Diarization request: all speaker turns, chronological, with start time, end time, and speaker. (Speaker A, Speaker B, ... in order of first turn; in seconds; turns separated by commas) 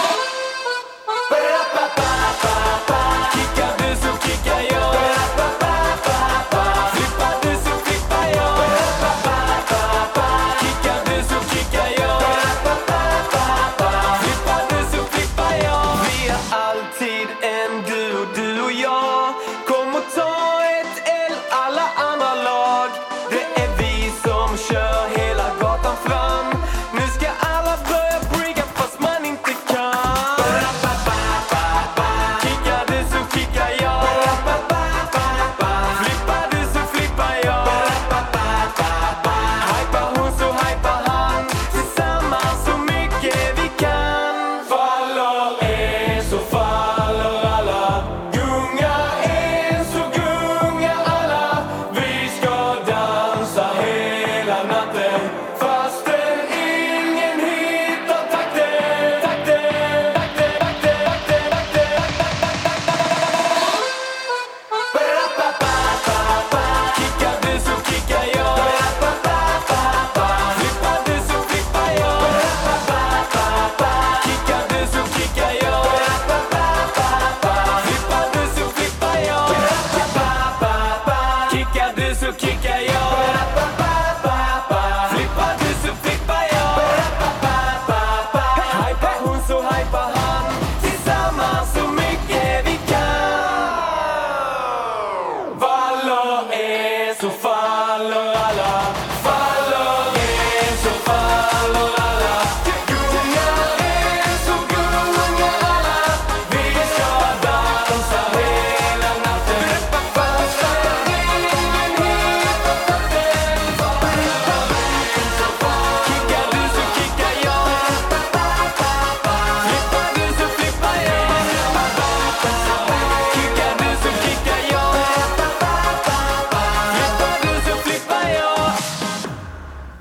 Speaker A: 1.3-62.0, Speaker A: 64.9-94.0, Speaker A: 95.5-118.3, Speaker A: 119.4-128.8